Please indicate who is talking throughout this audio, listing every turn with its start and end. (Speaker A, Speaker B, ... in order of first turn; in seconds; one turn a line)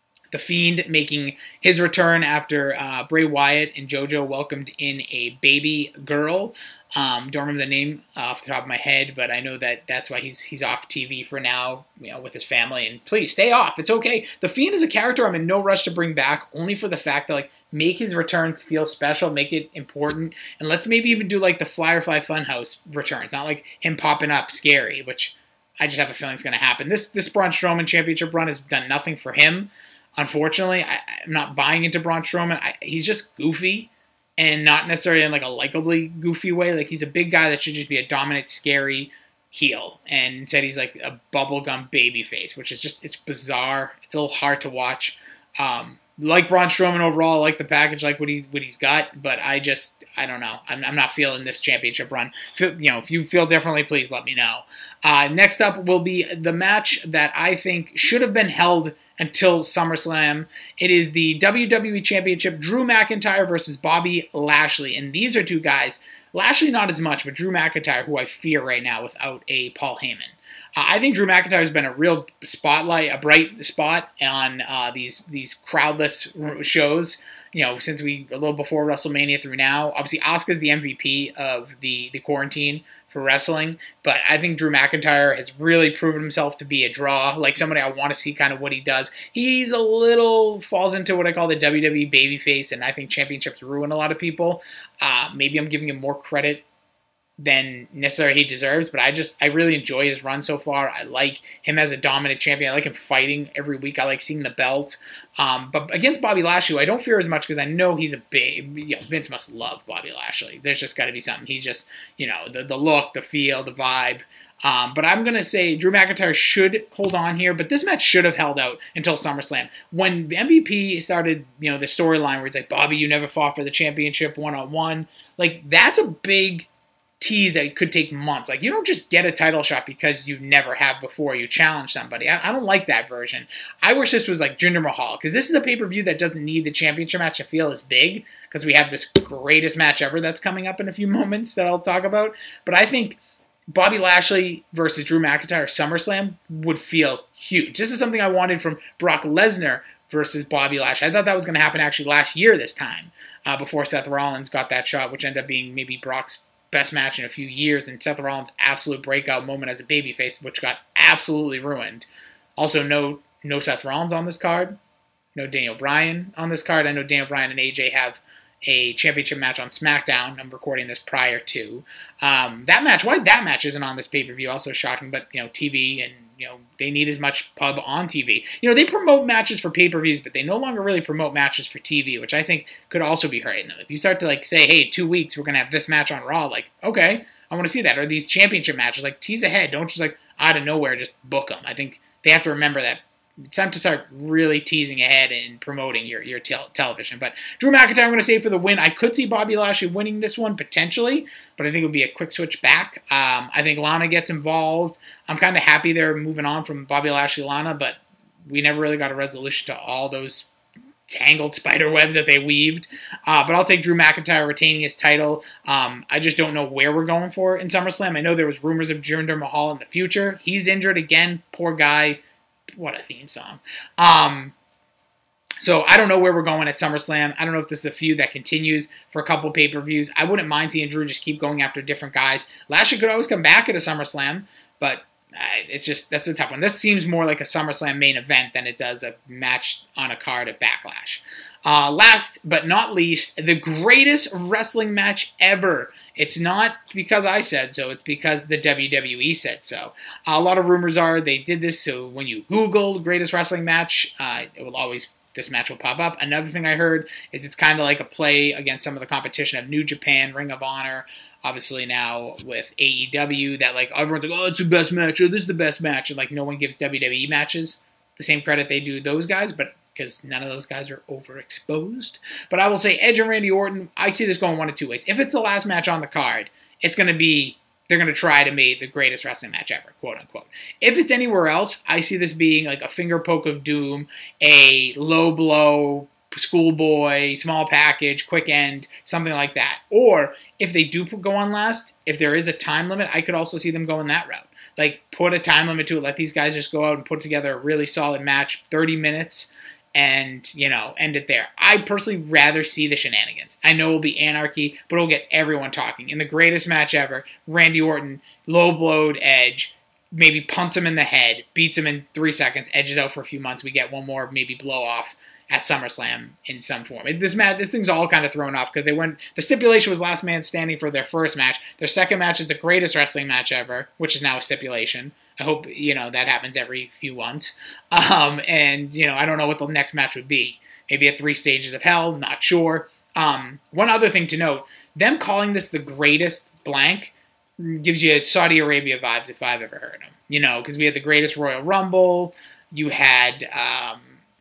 Speaker A: 0.3-96.7
Speaker A: 97.4-126.7
Speaker A: 127.2-143.2
Speaker A: 143.7-164.8
Speaker A: 165.3-210.5
Speaker A: 211.1-222.2
Speaker A: 222.8-224.6
Speaker A: 225.6-344.2